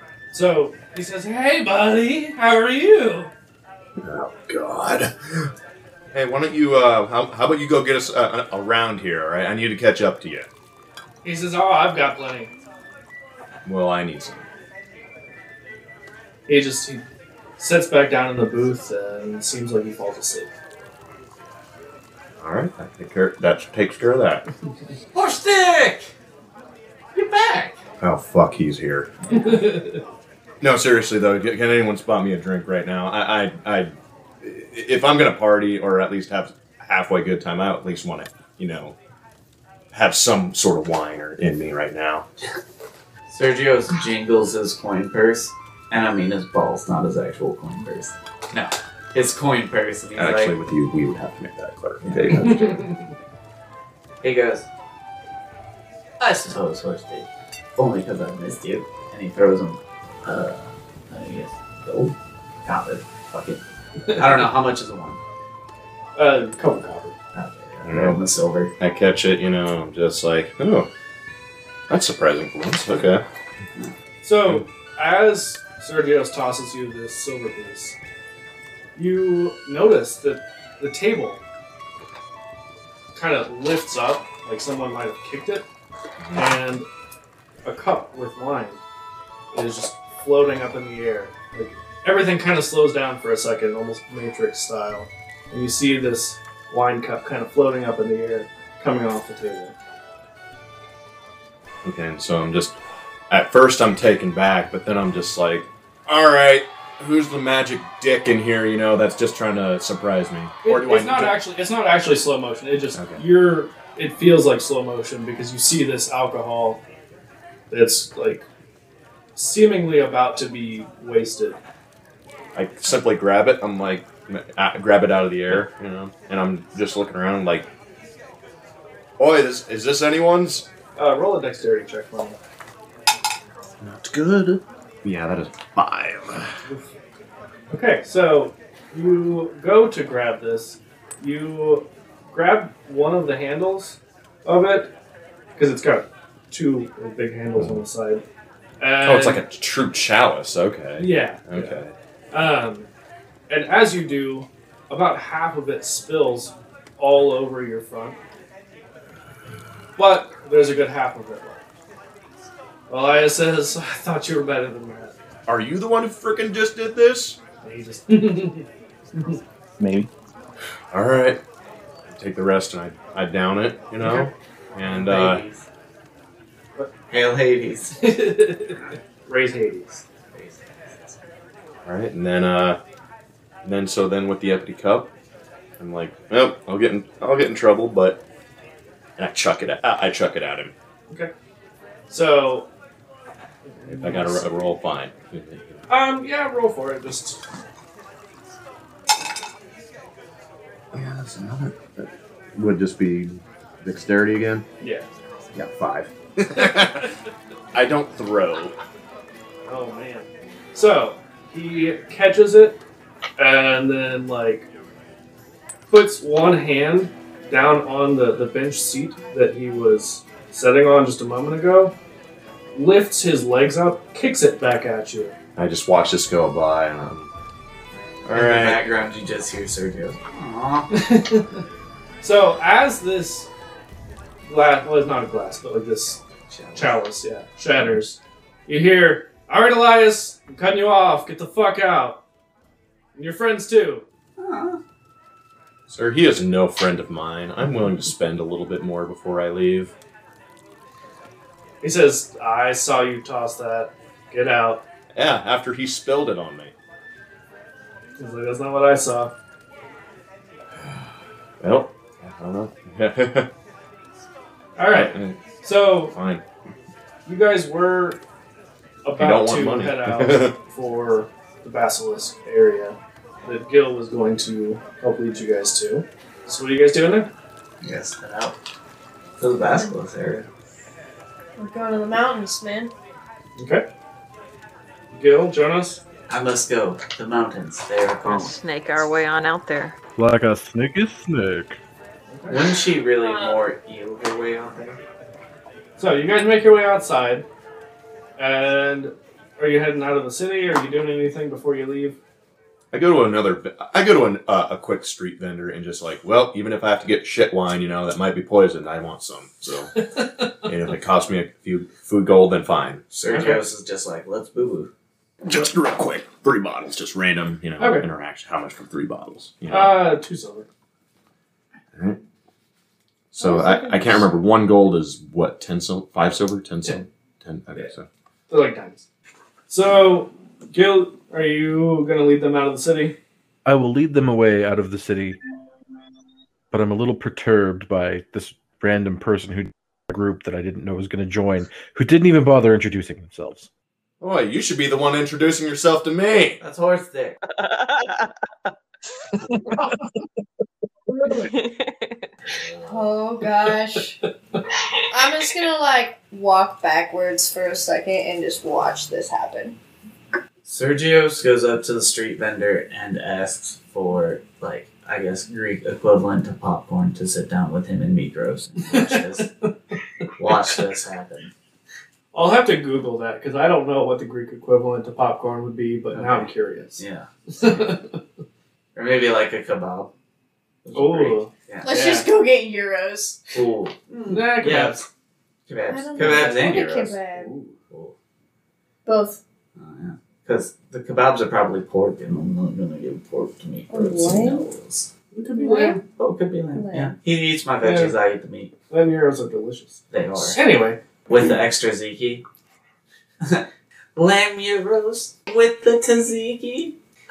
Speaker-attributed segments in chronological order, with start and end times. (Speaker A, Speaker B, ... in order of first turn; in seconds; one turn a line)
Speaker A: 0.3-3.3
Speaker B: 4.0-5.5
Speaker B: 6.1-10.5
Speaker A: 11.2-12.5
Speaker B: 13.6-14.4
Speaker A: 16.5-17.0
Speaker A: 17.6-20.5
Speaker B: 22.4-24.4
Speaker C: 25.1-26.1
Speaker C: 27.1-27.8
Speaker B: 28.0-29.1
Speaker C: 29.2-29.7
Speaker A: 29.3-30.0
Speaker B: 30.6-38.9
Speaker B: 39.9-42.2
Speaker C: 43.3-50.6
Speaker B: 50.1-53.0
Speaker C: 52.0-52.9
Speaker A: 52.4-53.0
Speaker C: 54.2-54.7
Speaker C: 56.2-65.2
Speaker A: 66.2-67.2
Speaker C: 67.3-68.7
Speaker B: 67.8-68.2
Speaker B: 68.8-70.9
Speaker B: 71.9-73.2
Speaker A: 74.2-78.0
Speaker A: 79.0-81.4
Speaker A: 83.1-85.7
Speaker B: 86.2-86.5
Speaker A: 86.3-86.8
Speaker A: 87.7-88.8
Speaker A: 89.5-99.7
Speaker B: 101.8-102.8
Speaker B: 103.3-111.4
Speaker A: 110.6-116.8
Speaker B: 112.9-113.2
Speaker A: 117.7-118.4
Speaker A: 119.3-121.6
Speaker B: 122.5-127.7
Speaker B: 129.2-130.7
Speaker A: 130.9-132.4
Speaker B: 133.8-136.5
Speaker A: 136.7-136.9
Speaker A: 137.7-144.9
Speaker A: 145.6-148.2
Speaker B: 147.6-147.8
Speaker A: 148.8-149.4
Speaker B: 149.0-151.9
Speaker A: 151.0-151.8
Speaker A: 152.3-152.9
Speaker A: 153.5-158.2
Speaker A: 160.0-161.6
Speaker A: 162.9-165.1
Speaker B: 165.5-167.4
Speaker A: 167.6-168.7
Speaker D: 169.8-170.1
Speaker B: 170.9-171.4
Speaker B: 172.1-175.4
Speaker A: 174.0-174.3
Speaker C: 174.8-175.7
Speaker C: 177.1-178.0
Speaker A: 178.0-180.0
Speaker C: 180.3-181.3
Speaker B: 181.8-182.8
Speaker B: 183.6-185.1
Speaker B: 185.8-188.2
Speaker B: 189.2-190.7
Speaker A: 192.1-192.7
Speaker A: 193.7-194.7
Speaker B: 193.9-195.8
Speaker A: 195.9-197.4
Speaker B: 200.9-204.7
Speaker A: 204.8-205.1
Speaker B: 205.5-207.1
Speaker A: 206.6-207.1
Speaker B: 207.7-208.7
Speaker A: 209.7-212.8
Speaker A: 213.4-214.7
Speaker A: 215.9-221.9
Speaker A: 222.7-225.3
Speaker B: 225.6-227.3
Speaker B: 228.2-228.8
Speaker C: 228.3-230.9
Speaker A: 230.9-231.6
Speaker A: 232.2-233.5
Speaker A: 234.5-236.2
Speaker C: 236.5-237.0
Speaker A: 236.7-242.2
Speaker A: 243.1-244.0
Speaker C: 244.4-244.8
Speaker B: 245.9-249.9
Speaker A: 251.8-254.8
Speaker B: 255.1-256.7
Speaker A: 258.2-259.3
Speaker B: 261.6-263.5
Speaker A: 264.8-266.1
Speaker B: 264.9-265.4
Speaker B: 266.1-266.4
Speaker A: 267.2-268.2
Speaker A: 269.0-277.3
Speaker B: 269.2-270.5
Speaker C: 277.8-278.6
Speaker C: 279.4-280.4
Speaker E: 281.6-282.9
Speaker A: 283.6-283.8
Speaker A: 285.1-286.0
Speaker C: 286.3-288.6
Speaker F: 288.2-290.0
Speaker D: 290.1-291.8
Speaker A: 292.3-292.6
Speaker C: 292.5-295.0
Speaker F: 293.2-293.6
Speaker A: 296.0-297.4
Speaker A: 298.4-302.2
Speaker B: 302.9-309.9
Speaker A: 310.0-310.5
Speaker B: 310.6-313.0
Speaker C: 313.1-314.9
Speaker A: 313.3-313.6
Speaker B: 315.4-320.0
Speaker A: 317.8-318.1
Speaker A: 319.7-320.7
Speaker B: 323.3-328.1
Speaker E: 323.4-324.0
Speaker A: 328.5-329.1
Speaker A: 329.7-333.1
Speaker D: 333.6-335.4
Speaker D: 336.7-343.7
Speaker B: 344.2-346.6
Speaker C: 346.6-347.4
Speaker F: 347.5-348.3
Speaker F: 351.3-352.2
Speaker C: 352.5-353.1
Speaker E: 352.9-354.2
Speaker E: 355.1-359.8
Speaker C: 360.6-369.5
Speaker A: 368.9-369.6
Speaker C: 370.4-371.5
Speaker A: 372.3-377.0
Speaker C: 376.1-377.9
Speaker A: 377.5-378.2
Speaker C: 378.9-380.1
Speaker C: 380.8-381.9
Speaker A: 380.9-382.3
Speaker E: 381.8-383.5
Speaker C: 383.5-385.1
Speaker A: 384.3-385.0
Speaker C: 385.7-388.1
Speaker E: 385.9-387.5
Speaker A: 386.2-386.5
Speaker E: 389.0-389.4
Speaker C: 389.8-395.1
Speaker E: 393.9-394.6
Speaker A: 395.3-396.0
Speaker E: 395.6-396.0
Speaker C: 396.0-398.7
Speaker E: 396.7-397.1
Speaker A: 397.8-398.1
Speaker A: 398.9-401.0
Speaker C: 400.1-400.6
Speaker C: 401.2-402.4
Speaker C: 403.4-406.9